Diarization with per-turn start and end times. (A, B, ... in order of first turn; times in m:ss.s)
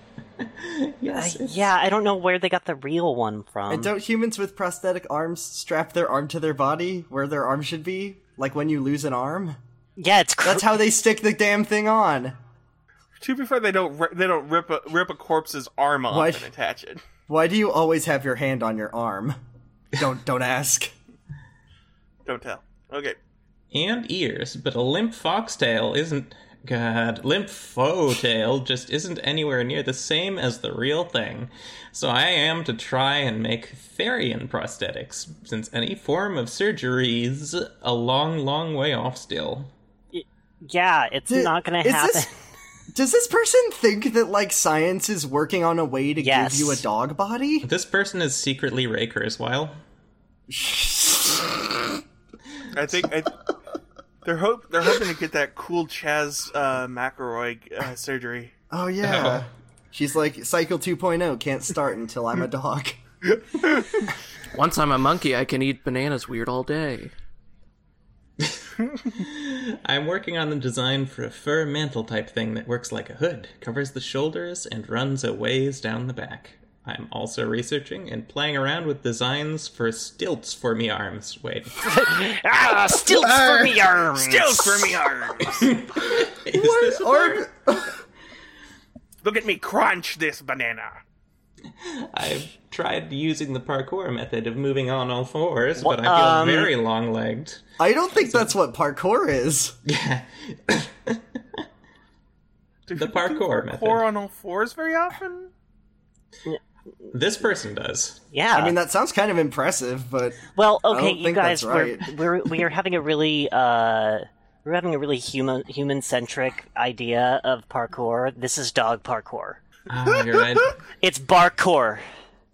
0:00.4-0:01.6 A
0:01.1-0:03.9 B
0:03.7-0:09.6 C
0:10.0-0:10.8 B
0:10.4-0:12.4 C
0:13.2-0:17.0 D
0:16.1-0:16.5 C
0:17.3-0:19.4 C
0:19.9-0:20.9 C
0:22.3-0:23.2 D
0:23.7-0:39.7 A
0:40.1-0:42.3 B
0:41.3-0:42.3 C
0:42.9-0:47.7 C
0:46.2-0:46.8 B
0:47.6-0:49.8 A
0:50.5-0:52.0 C
0:52.7-0:53.3 D
0:54.2-0:58.5 D
0:58.7-1:03.0 C
0:59.0-0:59.4 A
1:03.6-1:04.0 D
1:04.5-1:07.1 E
1:08.4-1:21.8 A
1:21.8-1:25.3 B
1:23.1-1:23.8 C
1:24.1-1:25.8 D
1:25.6-1:27.5 A
1:26.2-1:28.0 C
1:29.2-1:31.0 D
1:31.8-1:37.6 A
1:35.8-1:36.7 B
1:37.8-1:39.8 C
1:38.2-1:38.5 A
1:39.8-1:41.2 A
1:42.9-1:45.5 D
1:43.0-1:44.0 A
1:47.1-1:48.2 A
1:48.3-1:48.8 B
1:48.5-1:52.2 C
1:50.6-1:59.6 B
1:59.9-2:00.8 A
2:00.2-2:00.7 D
2:01.0-2:02.0 B